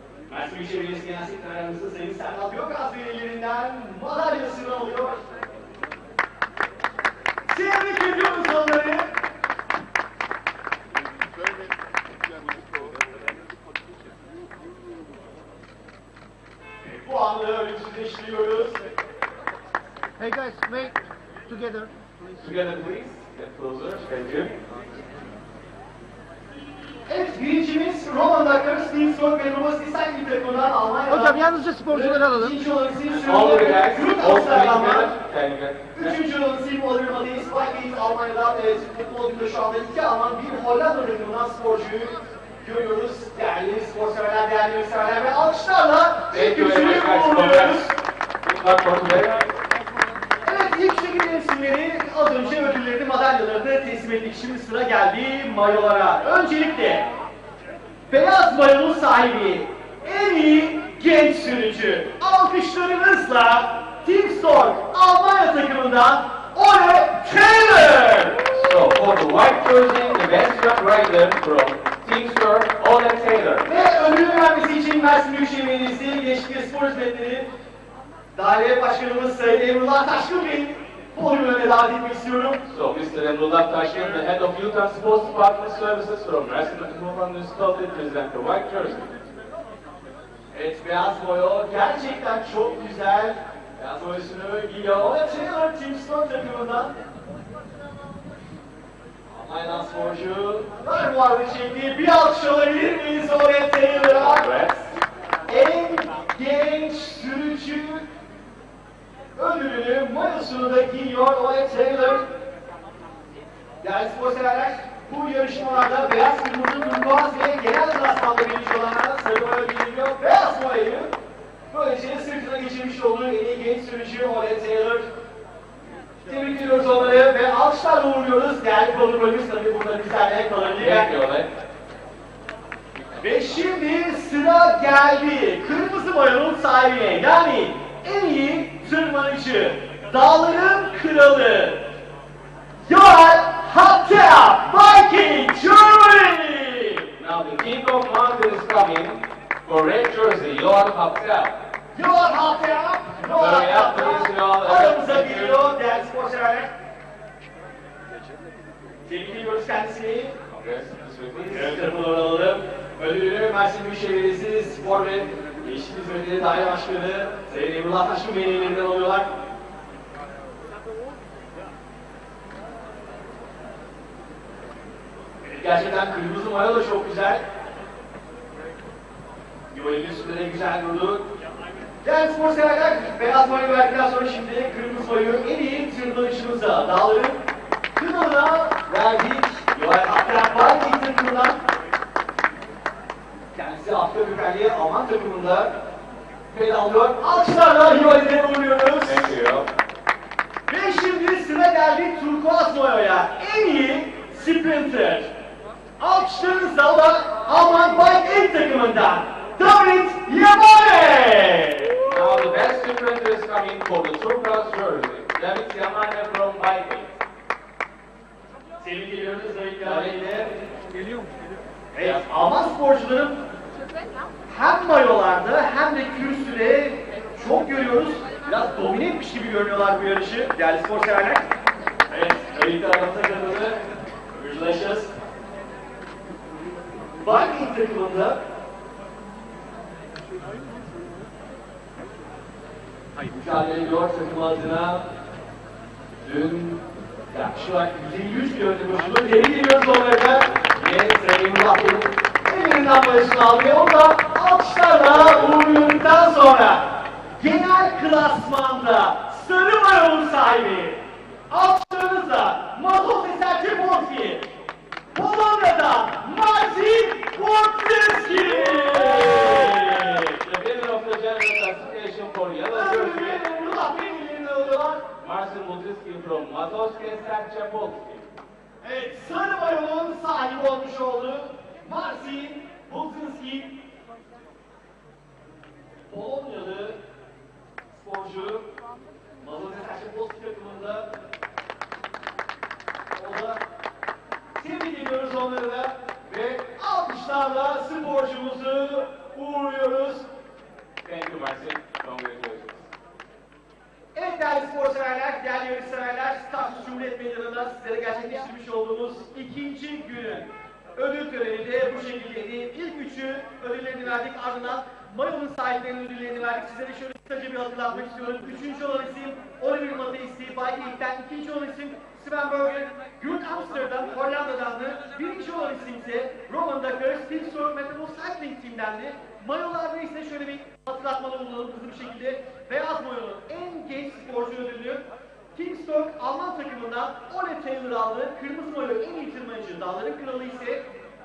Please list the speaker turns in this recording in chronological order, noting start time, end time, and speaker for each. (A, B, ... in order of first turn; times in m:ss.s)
0:00.3-0:05.2 A
0:07.5-0:09.1 A
0:16.8-0:18.8 A
0:20.2-0:21.0 B
0:21.5-0:21.9 B
0:22.4-0:24.6 C
0:27.1-0:35.1 A
0:31.2-0:32.5 B
0:33.1-0:36.2 C
0:36.0-0:47.9 A
0:46.3-0:49.5 C
0:50.4-0:57.1 A
0:58.1-1:08.4 A
1:08.5-1:13.7 C
1:13.6-1:17.5 A
1:18.3-1:22.6 A
1:22.7-1:29.1 C
1:30.5-1:36.9 A
1:39.3-1:44.5 A
1:44.2-1:45.0 C
1:45.5-1:48.0 A
1:49.4-1:52.3 A
1:53.8-2:01.1 A
2:01.7-2:05.1 A
2:06.3-2:11.1 A
2:10.8-2:11.5 C
2:13.2-2:21.9 A
2:22.9-2:27.1 A
2:27.2-2:31.6 C
2:32.0-2:36.7 A
2:33.4-2:35.7 C
2:39.1-2:40.4 A
2:40.5-2:41.9 C
2:41.5-2:49.3 A
2:55.4-2:57.4 A
2:59.7-3:01.2 A
3:02.0-3:07.4 A
3:08.0-3:11.6 A
3:13.5-3:15.7 A
3:16.5-3:19.3 A
3:19.0-3:19.7 C
3:20.7-3:25.4 A
3:26.0-3:32.0 A
3:32.0-3:37.1 C
3:38.8-3:40.6 A
3:39.8-3:40.5 C
3:41.9-3:43.4 A
3:44.5-3:51.5 A
3:52.1-3:53.8 A
3:54.3-3:55.1 A
3:57.2-3:58.4 A
4:03.3-4:05.0 A
4:06.2-4:24.5 A
4:25.1-4:30.3 A
4:28.9-4:33.4 C
4:32.7-4:35.1 A
4:35.2-4:38.3 C
4:38.8-4:43.8 A
4:46.1-4:47.0 A
4:47.9-4:48.7 A
4:49.4-4:51.1 A
4:53.1-4:53.6 A
4:54.6-5:00.3 A
5:01.0-5:02.9 C
5:04.1-5:40.9 A